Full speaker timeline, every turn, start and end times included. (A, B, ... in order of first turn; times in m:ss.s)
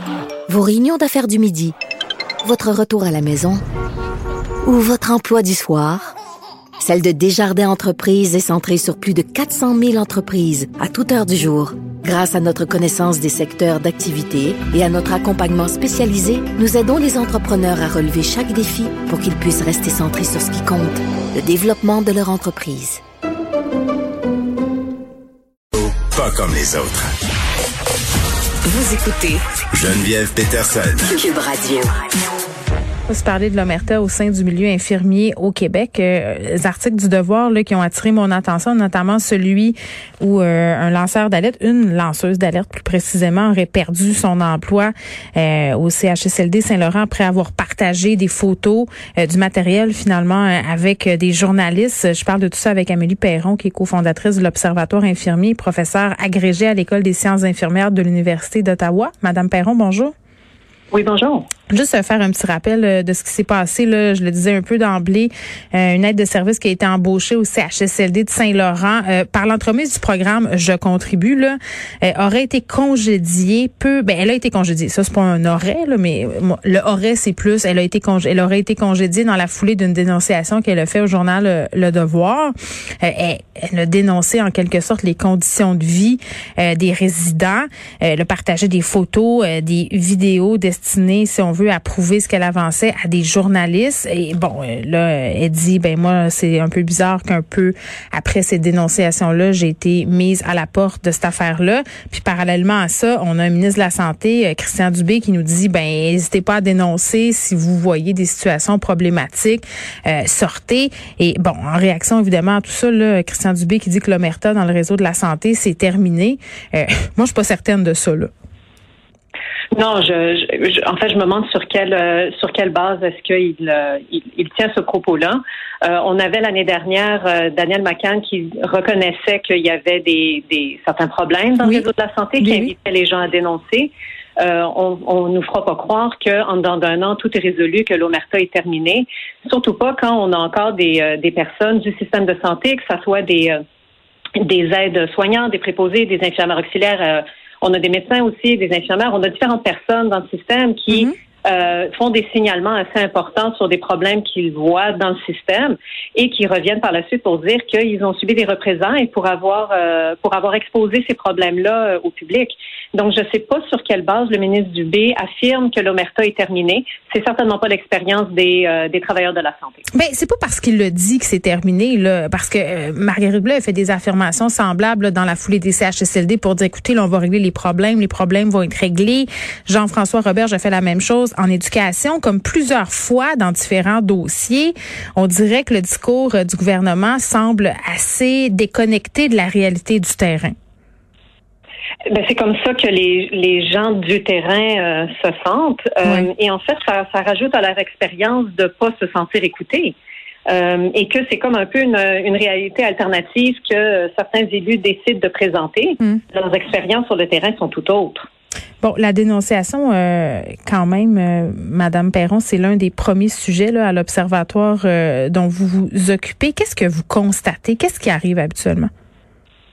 0:00.5-0:01.7 A
0:02.4-0:03.6 A
0:04.6-0:06.1 A
0:06.8-0:23.0 A
0:25.8-0:27.1 B
0:28.7-0:29.4 A
0:29.7-0:31.1 B
0:31.1-0:31.9 A
0:33.1-1:00.1 C
1:00.9-1:01.5 D
1:01.7-1:58.3 C
1:59.7-2:23.6 D
2:12.4-2:12.7 C
2:24.4-2:49.8 D
2:49.9-3:10.5 C
3:12.1-3:19.9 D
3:20.5-3:28.3 D
3:28.8-3:38.9 C